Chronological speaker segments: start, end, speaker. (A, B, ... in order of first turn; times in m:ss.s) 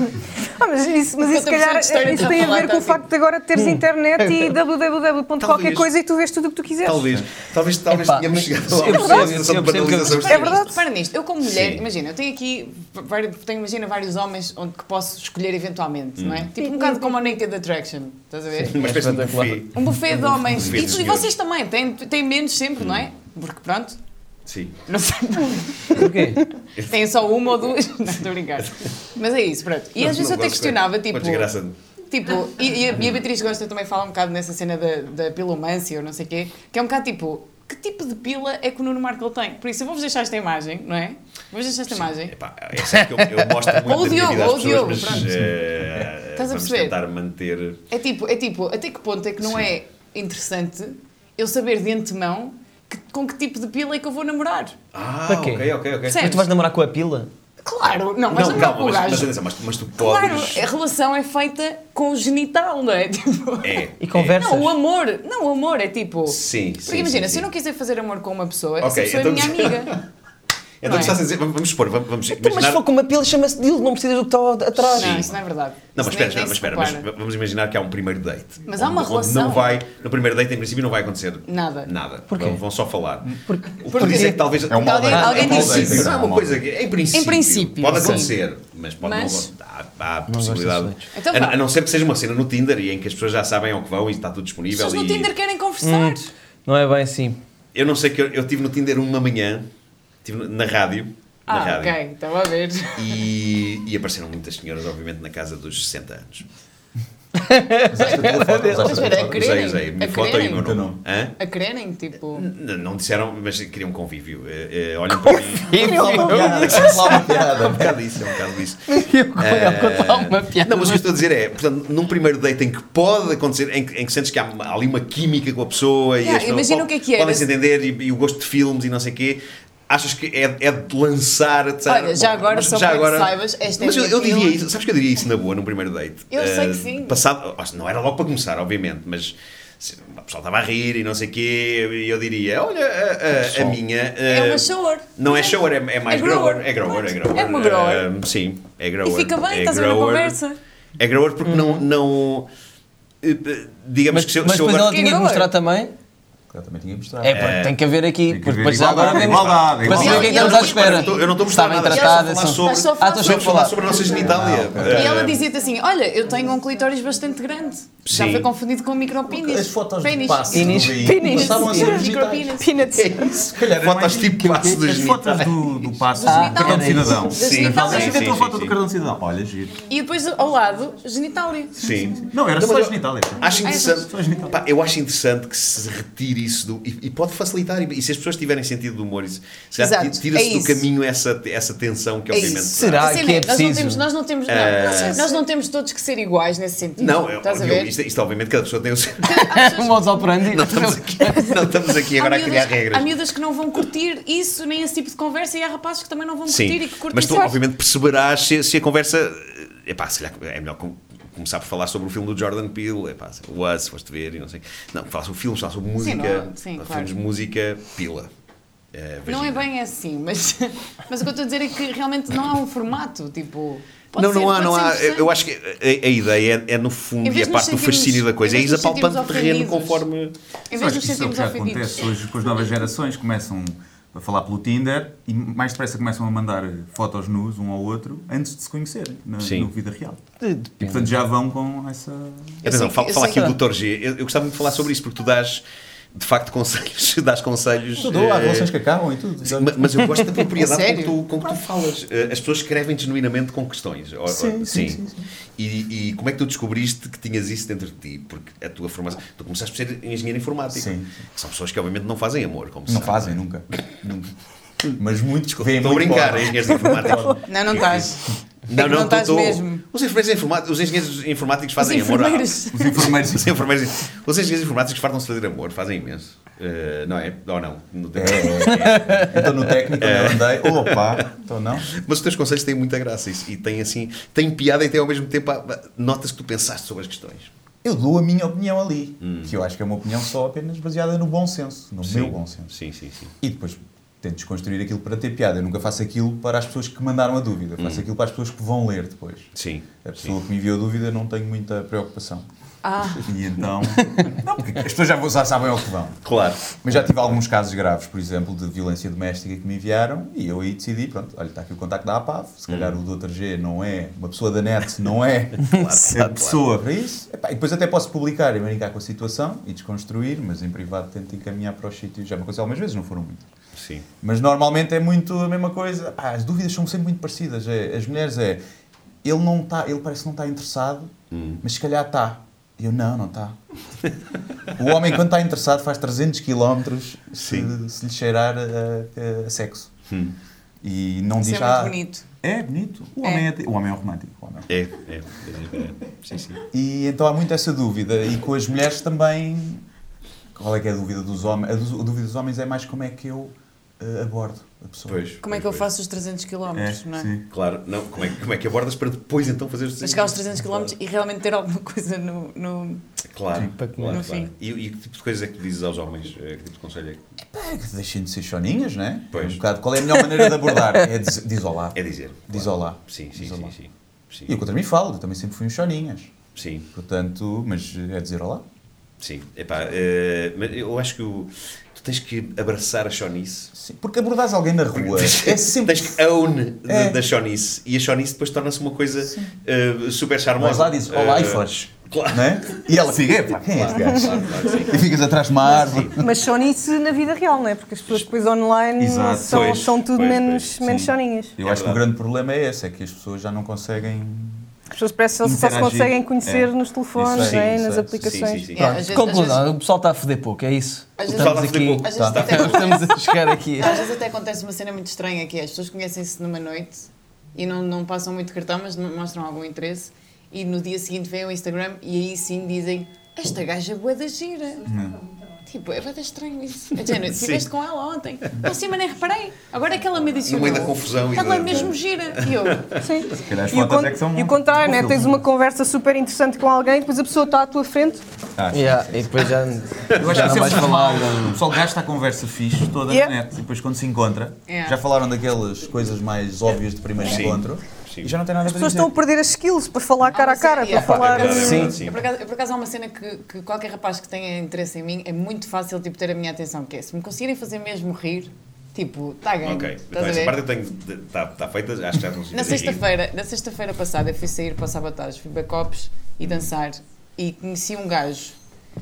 0:00.2-0:07.1 A
0:01.2-0:03.0 B
0:03.6-0:04.5 C
0:05.4-0:05.9 D
0:06.8-0:10.7 D
0:07.9-0:10.4 C
0:08.9-0:09.3 B
0:10.1-0:18.8 B
0:10.3-0:10.8 A
0:11.4-0:11.9 D
0:16.2-0:16.5 D
0:16.6-0:17.3 A
0:18.5-0:20.3 C
0:18.7-0:21.3 D
0:19.7-0:24.0 B
0:20.7-0:21.0 E
0:22.8-0:23.1 D
0:24.5-0:24.8 D
0:24.9-0:26.2 B
0:25.9-0:26.4 C
0:26.8-0:31.5 B
0:30.0-0:31.8 D
0:32.1-0:42.3 B
0:32.9-0:33.2 D
0:41.9-0:47.8 D
0:42.8-0:43.7 C
0:43.8-0:45.5 B
0:46.4-0:47.0 B
0:47.9-0:54.8 B
0:49.4-0:49.7 D
0:54.9-0:56.4 D
0:55.3-0:57.3 C
0:56.1-0:56.5 B
0:57.6-0:59.3 B
0:57.8-1:00.7 D
0:59.9-1:03.9 B
1:03.6-1:04.4 D
1:04.0-1:04.8 C
1:04.4-1:10.0 B
1:06.3-1:07.5 D
1:08.8-1:10.0 D
1:10.8-1:12.8 D
1:10.8-1:11.2 B
1:12.3-1:15.2 C
1:14.9-1:17.1 B
1:15.0-1:15.4 D
1:16.0-1:35.3 D
1:18.7-1:19.8 B
1:21.5-1:21.9 B
1:22.3-1:22.6 C
1:23.4-1:24.4 C
1:23.9-1:26.4 B
1:24.7-1:26.6 E
1:27.1-1:28.4 B
1:29.0-1:29.5 B
1:30.3-1:31.1 C
1:31.1-1:31.6 B
1:34.7-1:36.3 B
1:35.8-1:37.4 C
1:37.8-1:39.7 D
1:40.2-1:42.0 D
1:41.5-1:43.2 B
1:43.0-1:46.5 D
1:47.4-1:49.1 C
1:47.9-1:49.4 E
1:48.0-1:50.6 B
1:49.2-1:51.4 D
1:50.5-1:51.0 E
1:51.4-1:52.5 B
1:52.3-2:30.4 D
1:55.1-1:57.2 C
1:55.7-1:58.0 E
1:58.9-2:01.2 C
2:06.2-2:07.5 B
2:11.9-2:14.6 B
2:16.3-2:17.2 B
2:23.4-2:23.8 E
2:24.3-2:28.1 B
2:29.0-2:30.6 B
2:31.0-2:32.5 D
2:31.4-2:31.9 C
2:33.2-2:35.0 D
2:34.1-2:35.9 C
2:34.9-2:35.5 B
2:36.5-2:37.5 E
2:37.2-2:43.9 C
2:37.3-2:37.8 D
2:38.3-2:40.4 E
2:38.9-2:45.4 D
2:39.9-2:44.1 B
2:44.1-2:45.2 E
2:44.9-2:52.8 B
2:48.1-2:48.5 D
2:49.4-2:52.6 E
2:50.5-2:52.0 C
2:51.0-2:53.4 A
2:53.0-2:58.8 D
2:53.3-2:59.8 E
2:54.5-2:54.8 C
2:56.2-2:58.4 B
2:56.2-2:57.3 C
2:59.9-3:01.8 B
3:01.8-3:13.2 D
3:01.8-3:04.6 E
3:03.6-3:04.0 B
3:09.8-3:10.8 B
3:12.3-3:17.9 B
3:12.6-3:14.1 C
3:14.5-3:15.4 D
3:17.0-3:19.6 D
3:19.2-3:20.3 B
3:19.4-3:21.6 C
3:20.5-3:23.2 D
3:22.0-3:27.6 B
3:26.5-3:38.3 D
3:36.0-3:37.1 B
3:38.9-3:39.7 D
3:39.3-3:45.3 B
3:44.2-3:50.3 D
3:47.2-3:50.0 B
3:50.7-3:52.1 B
3:50.7-4:00.2 E
3:59.4-3:59.7 D
4:00.4-4:01.1 C
4:00.8-4:02.6 E
4:02.6-4:03.6 B
4:02.6-4:05.6 D
4:06.1-4:08.7 D
4:08.0-4:10.0 E
4:09.4-4:15.0 D
4:10.5-4:11.2 B
4:14.3-4:15.3 E
4:15.6-4:23.4 D
4:20.7-4:21.2 E
4:22.9-4:24.3 E
4:24.9-4:27.4 E
4:25.6-4:39.4 D
4:27.5-4:29.8 B
4:31.8-4:33.1 B
4:32.7-4:33.7 E
4:38.2-4:41.9 E
4:38.7-4:39.4 C
4:40.0-4:41.3 D
4:41.8-4:47.5 D
4:47.8-4:52.7 E
4:49.2-4:49.5 D
4:52.0-4:53.3 D
4:53.4-4:59.5 E
4:57.8-4:58.0 D
4:59.6-5:00.4 D
5:00.0-5:02.5 E
5:02.8-5:03.3 B
5:03.2-5:06.2 E
5:06.2-5:06.8 D
5:06.8-5:23.4 E
5:12.7-5:13.0 D
5:15.6-5:16.6 D
5:15.7-5:16.1 C
5:23.8-5:24.1 D
5:24.2-5:28.6 E
5:29.2-5:33.6 E
5:31.3-5:31.6 D
5:34.8-5:39.9 E
5:37.4-5:37.7 D
5:40.1-5:40.4 D
5:40.8-5:44.7 E
5:41.4-5:42.2 B
5:44.7-5:46.6 D
5:46.7-5:49.8 E
5:50.6-5:55.2 E
5:55.1-5:55.9 D
5:55.4-5:57.3 B
5:56.7-5:57.5 E
5:57.5-6:00.9 D
6:00.0-6:03.0 B
6:03.3-6:07.2 D
6:03.8-6:04.2 C
6:04.1-6:04.5 B
6:07.5-6:13.7 E
6:09.3-6:09.6 D
6:10.1-6:11.1 C
6:12.0-6:14.5 D
6:14.5-6:16.3 E
6:16.6-6:16.9 D
6:16.9-6:18.6 E
6:19.2-6:23.7 D
6:23.7-6:26.2 E
6:25.0-6:32.9 D
6:26.9-6:27.2 E
6:30.6-6:36.3 E
6:33.6-6:36.2 D
6:34.0-6:34.4 A
6:36.2-6:41.5 A
6:39.0-6:39.8 E
6:39.5-6:40.8 D
6:40.8-6:44.7 E
6:41.6-6:42.0 D
6:44.9-6:48.7 A
6:45.4-6:48.5 E
6:47.4-6:47.7 D
6:48.2-6:49.0 D
6:48.7-6:49.6 B
6:48.8-6:54.0 C
6:51.2-7:04.9 B
6:51.3-6:53.1 D
6:52.2-6:52.5 E
7:04.9-7:05.2 E
7:05.7-7:13.0 B
7:07.2-7:07.7 D
7:10.4-7:13.0 D
7:13.0-7:18.2 A
7:13.4-7:15.4 E
7:18.6-7:19.5 E
7:18.7-7:21.6 C
7:20.1-7:21.0 D
7:20.2-7:29.1 E
7:23.1-7:23.3 A
7:24.7-7:25.0 B
7:27.2-7:28.3 D
7:28.7-7:31.9 A
7:30.2-7:40.6 B
7:31.0-7:32.2 D
7:31.4-7:32.0 C
7:39.6-7:43.1 D
7:42.5-7:48.6 B